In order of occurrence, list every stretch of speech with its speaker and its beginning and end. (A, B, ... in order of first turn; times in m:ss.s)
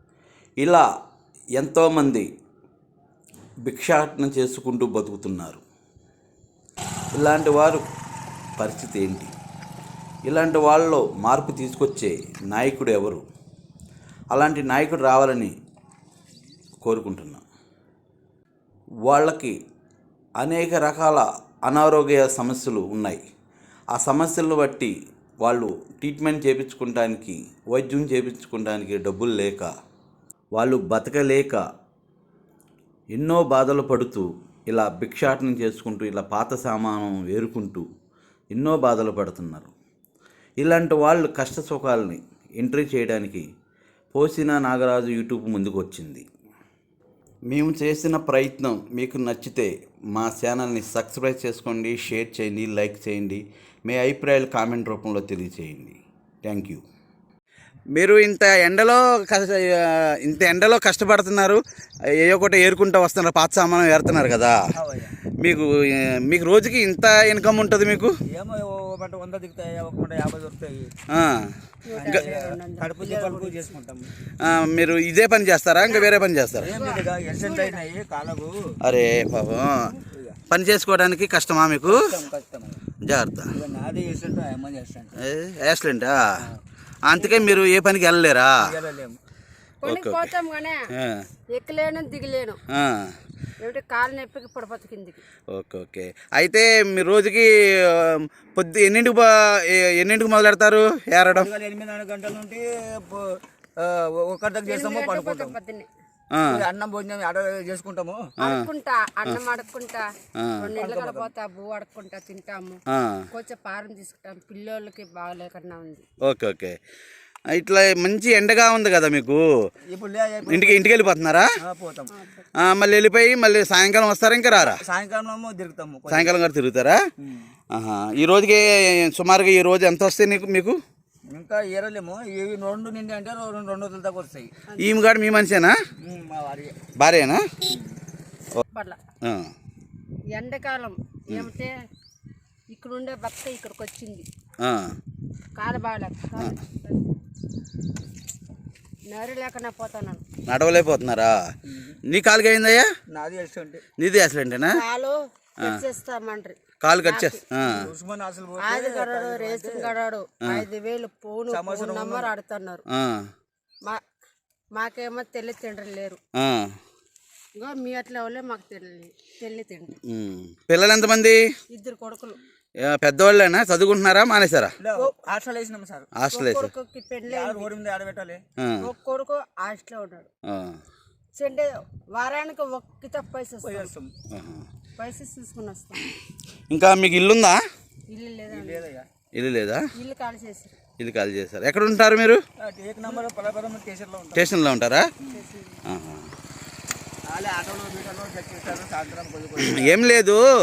0:00.6-0:00.8 A
0:01.6-0:02.3 A
0:03.6-0:05.6 A
0:07.1-0:07.9 A
0:08.6-0:09.3 A
0:10.3-0:13.3 A
0:14.3-0:15.6 A
0:16.8-0:17.4 A
0:19.1-0:19.6 A
0:20.4-0:23.2 A
0:23.9-0:29.7 A
0:30.6-0:31.6 A
0:33.2-0:37.9 A
0:38.5-0:39.7 A
0:40.6-0:43.5 A
0:44.1-0:46.3 A
0:47.5-0:56.8 A
0:58.0-1:01.6 A
1:02.2-1:04.6 A
1:04.7-1:05.2 B
1:05.4-1:08.1 A
1:08.3-1:10.9 B
1:11.1-1:11.5 A
1:11.8-1:13.8 C
1:11.9-1:14.1 B
1:14.4-1:16.7 A
1:15.8-1:16.1 C
1:16.6-1:18.8 B
1:16.6-1:17.9 C
1:18.8-1:19.9 A
1:19.8-1:20.4 B
1:20.5-1:22.0 A
1:21.9-1:22.8 B
1:23.0-1:23.5 A
1:23.5-1:25.1 B
1:25.2-1:26.2 A
1:27.1-1:28.6 A
1:27.2-1:27.6 B
1:28.6-1:29.2 B
1:29.8-1:30.9 C
1:29.9-1:30.3 A
1:30.9-1:31.3 A
1:31.5-1:32.6 C
1:32.7-1:33.2 A
1:33.6-1:35.2 C
1:35.5-1:41.5 A
1:41.3-1:45.6 B
1:44.7-1:45.9 C
1:46.3-1:46.6 A
1:46.4-1:48.3 B
1:48.4-1:50.0 C
1:48.4-1:48.7 A
1:50.4-1:50.7 A
1:50.6-1:52.8 C
1:50.8-1:51.3 B
1:52.9-1:53.2 A
1:53.3-1:56.0 C
1:56.2-1:56.8 A
1:57.5-1:59.4 A
1:59.9-2:00.9 B
2:00.5-2:01.5 A
2:01.6-2:02.1 B
2:02.1-2:02.5 C
2:02.6-2:04.8 A
2:04.5-2:06.3 B
2:06.1-2:07.0 A
2:07.2-2:07.5 B
2:07.7-2:10.8 A
2:11.3-2:14.5 B
2:14.7-2:15.0 C
2:14.8-2:15.8 A
2:16.0-2:16.8 B
2:17.0-2:17.4 A
2:18.7-2:19.0 C
2:19.2-2:19.5 A
2:20.4-2:21.7 C
2:22.7-2:24.3 C
2:24.6-2:25.0 A
2:25.6-2:27.0 C
2:29.1-2:30.2 C
2:30.5-2:31.4 A
2:31.6-2:32.0 B
2:32.1-2:32.9 A
2:33.1-2:33.8 B
2:34.0-2:34.8 A
2:34.7-2:37.4 C
2:36.8-2:37.9 A
2:37.7-2:39.9 B
2:38.6-2:42.8 C
2:41.5-2:42.3 B
2:42.9-2:43.3 A
2:44.8-2:46.2 C
2:46.4-2:46.7 A
2:47.6-2:50.0 C
2:50.1-2:51.4 A
2:51.7-2:52.4 C
2:52.9-2:54.7 A
2:54.8-2:56.1 B
2:56.2-2:56.7 A
2:56.3-2:57.7 C
2:57.3-2:58.4 B
2:58.6-2:58.9 A
2:58.8-3:00.3 C
3:00.5-3:00.8 A
3:01.4-3:03.9 C
3:03.6-3:04.1 B
3:04.3-3:04.7 A
3:05.0-3:06.1 C
3:06.7-3:07.6 A
3:08.1-3:08.8 C
3:08.5-3:09.1 B
3:09.4-3:09.9 A
3:10.0-3:10.8 C
3:11.0-3:12.4 A
3:12.6-3:14.5 B
3:14.4-3:15.1 A
3:15.3-3:15.8 C
3:15.9-3:16.3 A
3:17.3-3:20.0 B
3:19.6-3:20.4 A